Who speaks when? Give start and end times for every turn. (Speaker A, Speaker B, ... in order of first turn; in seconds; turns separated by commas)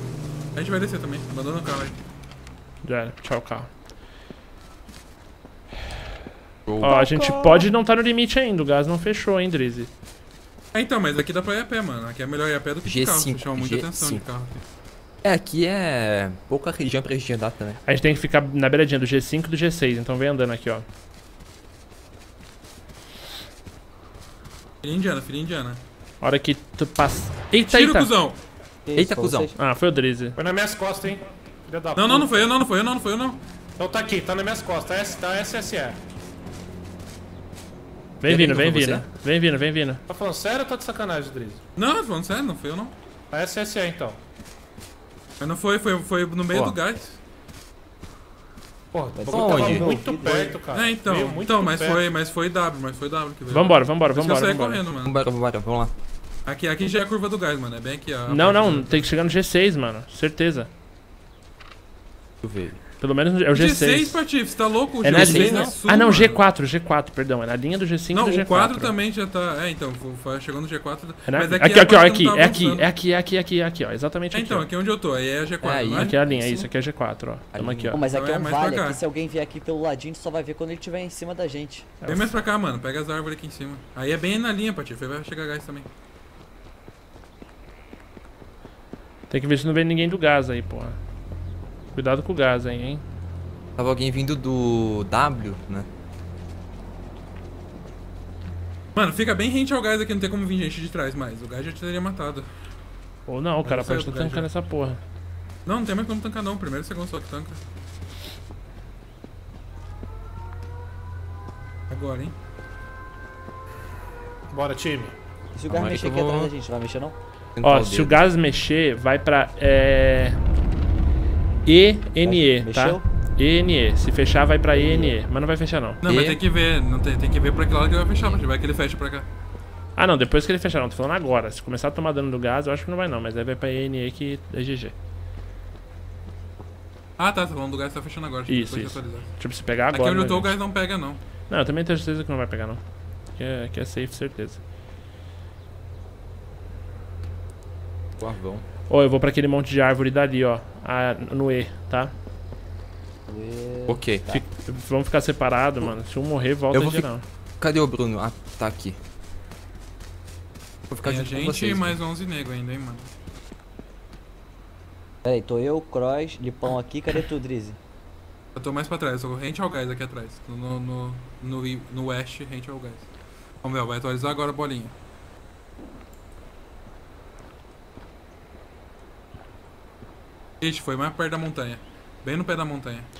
Speaker A: 0.6-1.9, Speaker B: 2.8-3.7, Speaker C: 6.7-7.5, Speaker B: 6.8-9.9, Speaker A: 10.7-14.6, Speaker C: 12.8-14.2, Speaker C: 15.2-17.8, Speaker B: 17.9-20.8, Speaker A: 24.8-25.8, Speaker B: 26.2-28.1, Speaker A: 27.6-28.4, Speaker D: 28.9-29.6, Speaker C: 28.9-29.5, Speaker B: 29.6-30.4, Speaker E: 30.4-32.5, Speaker A: 31.9-33.4, Speaker E: 33.8-36.0, Speaker B: 38.2-40.0, Speaker C: 38.2-39.0, Speaker E: 40.1-41.6, Speaker A: 41.8-42.9, Speaker E: 43.3-44.2, Speaker A: 45.4-47.2, Speaker C: 46.5-46.8, Speaker E: 48.9-52.0, Speaker D: 49.1-50.6, Speaker C: 49.3-49.9, Speaker A: 50.7-55.1, Speaker B: 53.5-54.8, Speaker C: 55.0-55.9, Speaker A: 56.5-59.1, Speaker B: 58.3-60.7, Speaker C: 62.4-62.8, Speaker B: 63.0-64.3, Speaker A: 63.5-66.4, Speaker B: 65.0-68.9, Speaker C: 65.1-65.7, Speaker A: 68.1-72.8, Speaker B: 71.2-74.7, Speaker A: 74.3-76.2, Speaker C: 75.6-76.7, Speaker B: 75.9-78.0, Speaker C: 77.5-78.0, Speaker D: 77.9-81.9, Speaker A: 78.1-79.0, Speaker B: 82.0-82.3, Speaker A: 82.0-85.9, Speaker B: 89.3-91.0, Speaker B: 91.9-93.0, Speaker C: 93.8-95.9, Speaker A: 99.0-102.5, Speaker B: 103.3-105.0, Speaker A: 103.6-104.5, Speaker A: 105.7-107.6, Speaker A: 111.9-112.3, Speaker E: 114.5-115.2, Speaker D: 115.5-117.2, Speaker C: 115.7-116.5, Speaker C: 117.5-118.2, Speaker B: 117.6-120.4, Speaker B: 121.6-126.0, Speaker D: 122.2-123.0, Speaker D: 124.7-125.1, Speaker A: 126.0-129.2, Speaker C: 126.0-126.4, Speaker B: 129.9-134.9, Speaker A: 137.2-141.2, Speaker B: 138.5-140.6, Speaker B: 141.5-142.8, Speaker B: 143.3-144.6, Speaker C: 148.2-148.6, Speaker B: 148.9-152.1, Speaker D: 153.3-154.4, Speaker C: 153.9-154.2, Speaker B: 154.3-157.2, Speaker C: 156.7-159.0, Speaker C: 160.9-162.0, Speaker A: 161.0-163.1, Speaker D: 165.2-167.8, Speaker A: 168.6-173.1, Speaker A: 173.6-174.9, Speaker A: 180.6-183.1